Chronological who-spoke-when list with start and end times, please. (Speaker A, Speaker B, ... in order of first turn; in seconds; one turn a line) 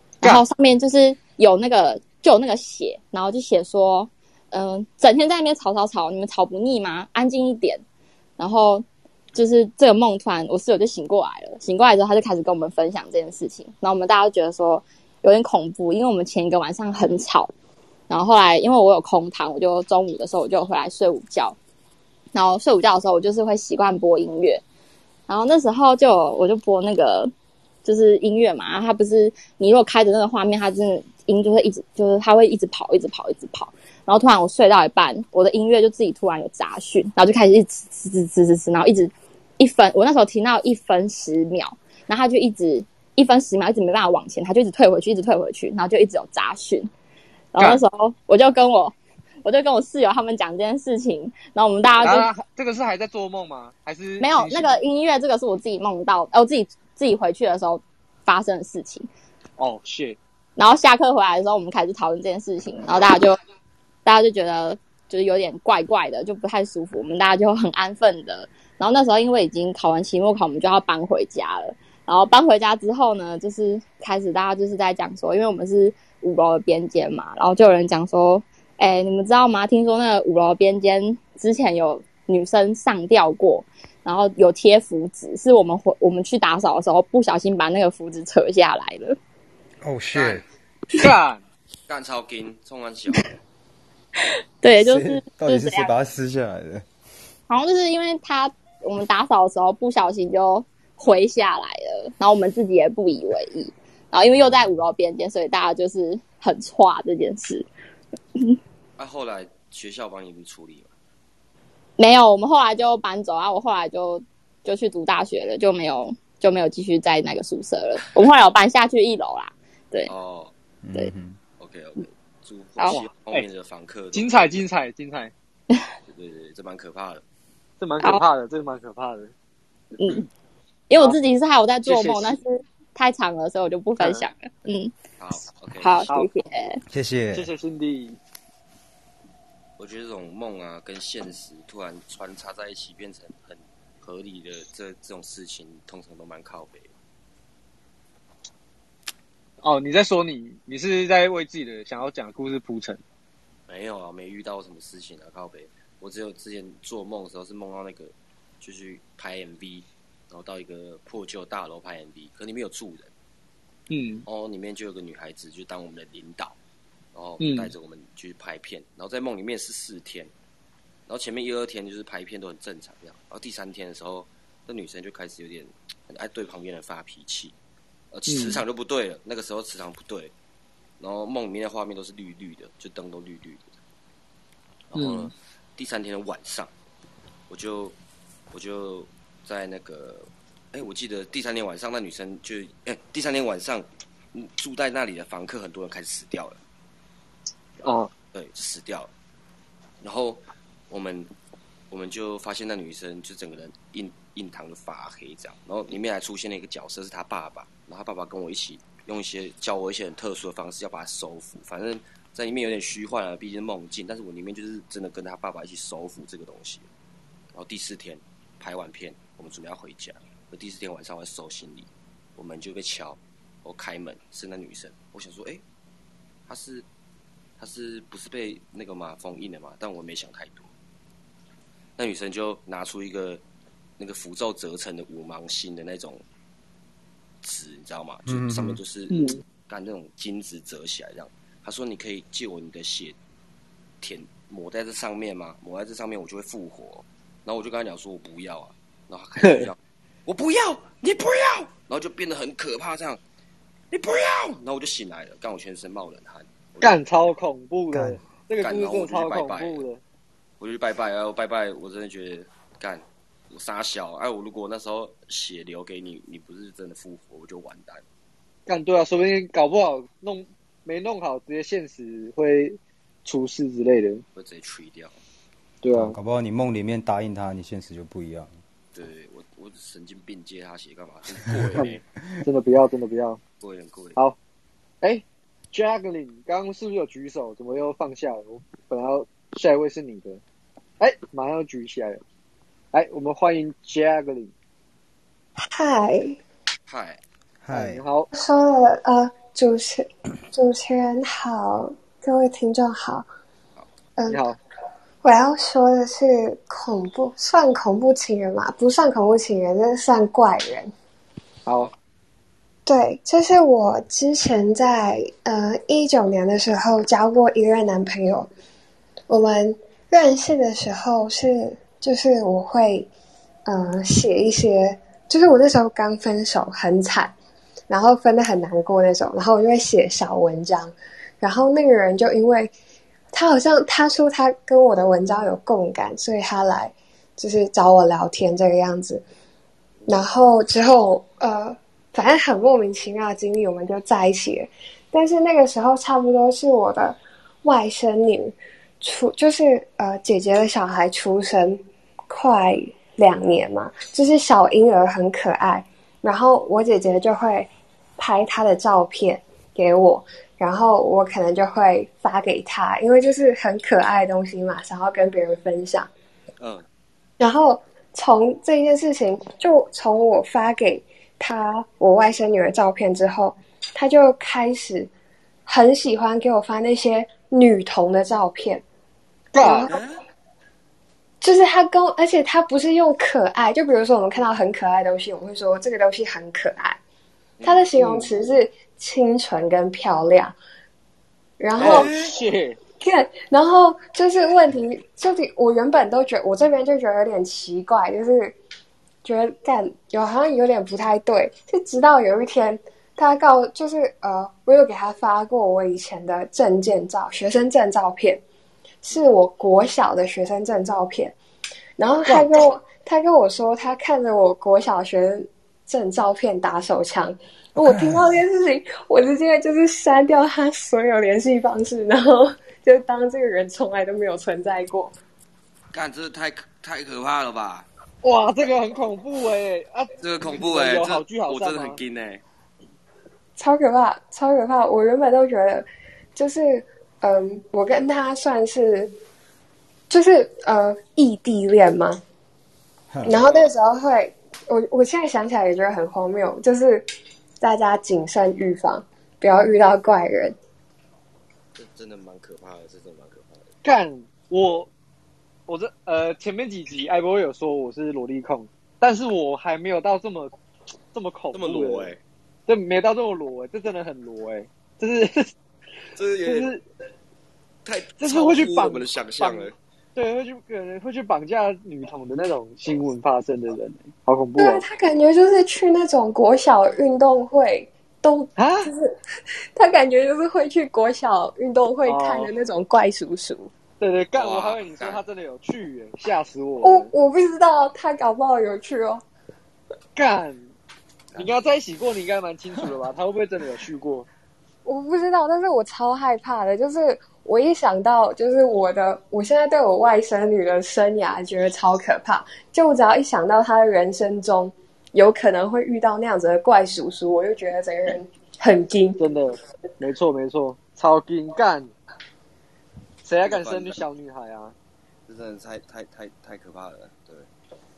Speaker A: 0.2-7.8
Speaker A: 8.4-17.5
Speaker A: 18.1-21.6
Speaker A: 22.3-24.6
Speaker A: 25.3-27.3
Speaker A: 27.8-46.9
Speaker A: 47.5-52.3
Speaker B: 52.0-54.8
Speaker A: 54.2-59.1
Speaker B: 59.6-60.2
Speaker A: 60.6-63.4
Speaker A: 64.0-89.2
Speaker C: 89.8-90.4
Speaker D: 90.1-90.4
Speaker B: 91.0-91.4
Speaker D: 91.9-93.3
Speaker A: 94.6-95.9
Speaker C: 94.8-96.8
Speaker A: 97.5-107.7
Speaker D: 109.0-110.9
Speaker A: 112.0-120.1
Speaker D: 120.0-120.5
Speaker C: 120.8-121.4
Speaker D: 121.6-124.7
Speaker A: 122.8-123.0
Speaker B: 122.9-123.5
Speaker B: 124.1-125.3
Speaker D: 126.0-127.2
Speaker B: 127.8-129.3
Speaker A: 130.0-130.2
Speaker A: 130.9-135.0
Speaker B: 131.8-132.4
Speaker B: 134.0-134.3
Speaker D: 135.2-136.1
Speaker A: 135.8-136.8
Speaker C: 136.9-137.5
Speaker B: 137.3-138.2
Speaker D: 139.8-146.9
Speaker B: 149.6-153.0
Speaker D: 153.7-163.1
Speaker B: 163.9-164.2
Speaker D: 164.2-166.6
Speaker D: 167.1-170.3
Speaker B: 167.4-167.7
Speaker D: 171.1-177.6
Speaker D: 178.1-180.3
Speaker B: 178.3-178.6
Speaker D: 181.0-183.8
Speaker D: 184.9-186.7
Speaker B: 184.9-185.3
Speaker D: 187.5-187.9
Speaker D: 188.5-196.6
Speaker B: 197.8-198.1
Speaker D: 198.3-199.1
Speaker D: 200.0-201.3
Speaker D: 201.9-216.9
Speaker D: 217.5-225.6
Speaker D: 226.5-226.8
Speaker D: 227.6-230.7
Speaker D: 232.0-233.4
Speaker D: 234.0-236.2
Speaker D: 237.4-243.2
Speaker C: 238.2-238.8
Speaker B: 239.1-239.4
Speaker D: 244.0-253.2
Speaker B: 249.4-249.7
Speaker D: 253.9-257.0
Speaker B: 256.8-260.0
Speaker C: 257.9-258.2
Speaker D: 258.6-259.8
Speaker D: 260.6-268.0
Speaker B: 268.7-274.2
Speaker D: 274.3-275.2
Speaker B: 275.8-276.1
Speaker C: 275.9-278.5
Speaker D: 278.9-282.0
Speaker B: 281.8-283.4
Speaker D: 283.6-284.2
Speaker B: 285.0-290.4
Speaker B: 291.0-292.2
Speaker B: 292.9-294.5
Speaker E: 295.6-296.4
Speaker D: 296.9-297.2
Speaker C: 297.6-298.0
Speaker B: 297.7-298.3
Speaker E: 298.3-303.2
Speaker E: 304.2-304.5
Speaker B: 304.3-304.6
Speaker E: 305.2-310.9
Speaker B: 311.6-311.9
Speaker E: 312.9-318.5
Speaker E: 319.3-323.1
Speaker E: 323.6-327.3
Speaker E: 327.9-332.7
Speaker E: 333.3-339.2
Speaker E: 340.1-366.1
Speaker D: 366.6-366.9
Speaker E: 367.4-375.1
Speaker E: 375.6-378.8
Speaker B: 379.5-379.9
Speaker E: 379.6-380.0
Speaker D: 379.9-380.1
Speaker E: 381.4-387.0
Speaker D: 387.6-387.9
Speaker E: 387.6-390.6
Speaker B: 388.0-388.3
Speaker E: 391.6-392.1
Speaker B: 391.8-392.8
Speaker D: 391.8-392.2
Speaker E: 393.0-398.6
Speaker E: 399.2-408.4
Speaker E: 409.0-411.3
Speaker E: 412.0-425.1
Speaker B: 412.2-412.6
Speaker D: 425.9-427.9
Speaker B: 428.2-432.0
Speaker D: 430.2-432.4
Speaker E: 433.6-439.1
Speaker E: 440.1-442.2
Speaker C: 443.1-443.4
Speaker E: 443.2-447.1
Speaker E: 447.6-450.6
Speaker D: 451.7-453.7
Speaker B: 453.8-454.9
Speaker B: 455.7-460.5
Speaker B: 461.1-462.1
Speaker D: 461.5-462.2
Speaker B: 462.7-465.5
Speaker D: 466.1-466.7
Speaker B: 466.4-466.8
Speaker D: 467.8-469.7
Speaker B: 468.2-474.8
Speaker E: 474.6-479.1
Speaker B: 478.6-478.9
Speaker E: 479.7-483.7
Speaker B: 482.0-482.5
Speaker B: 484.0-487.1
Speaker D: 484.4-485.2
Speaker E: 486.8-489.2
Speaker B: 490.1-490.7
Speaker B: 491.3-494.3
Speaker E: 494.8-509.2
Speaker B: 509.2-511.9
Speaker B: 513.2-514.7
Speaker D: 513.4-514.0
Speaker D: 515.3-517.5